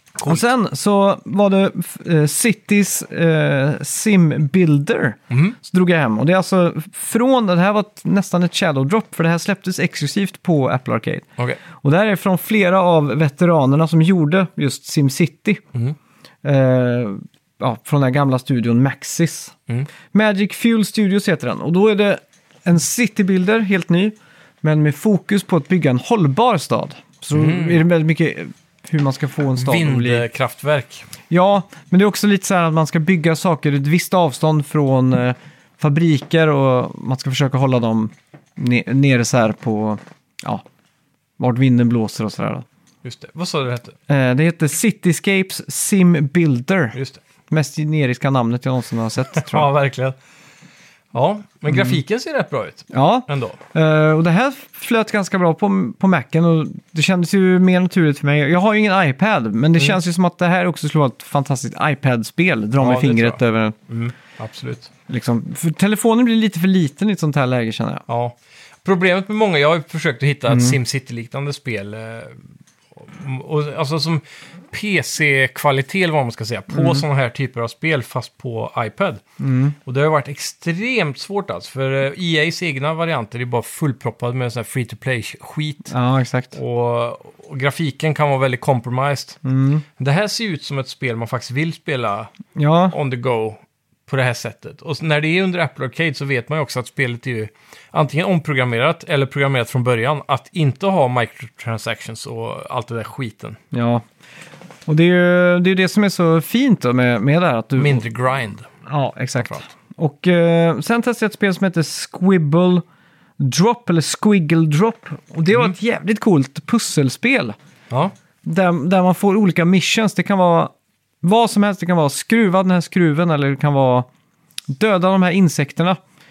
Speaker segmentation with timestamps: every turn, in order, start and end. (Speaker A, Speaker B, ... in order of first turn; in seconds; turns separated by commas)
Speaker A: 0.2-15.6, Speaker B: 5.3-5.6, Speaker A: 16.4-19.6, Speaker A: 20.1-30.3, Speaker B: 27.3-27.8, Speaker B: 29.6-31.1, Speaker A: 31.3-40.6, Speaker A: 41.4-42.6, Speaker B: 43.0-44.0, Speaker A: 44.1-47.0, Speaker B: 46.9-47.2, Speaker A: 47.5-49.7, Speaker B: 49.3-50.2, Speaker B: 51.1-53.6, Speaker A: 51.7-52.0, Speaker A: 52.9-63.8, Speaker B: 62.8-64.9, Speaker A: 65.1-68.0, Speaker B: 68.1-72.4, Speaker A: 70.5-70.8, Speaker B: 73.0-79.2, Speaker A: 76.7-77.0, Speaker A: 79.4-79.8, Speaker B: 79.8-85.9, Speaker A: 85.9-86.5, Speaker B: 86.5-89.4, Speaker A: 89.4-89.8, Speaker B: 90.0-92.3, Speaker A: 92.5-93.0, Speaker B: 92.9-103.6, Speaker A: 103.7-104.0, Speaker A: 104.9-108.0, Speaker B: 107.8-108.7, Speaker A: 108.9-112.8, Speaker A: 113.4-117.6, Speaker A: 118.5-124.1, Speaker A: 124.7-126.0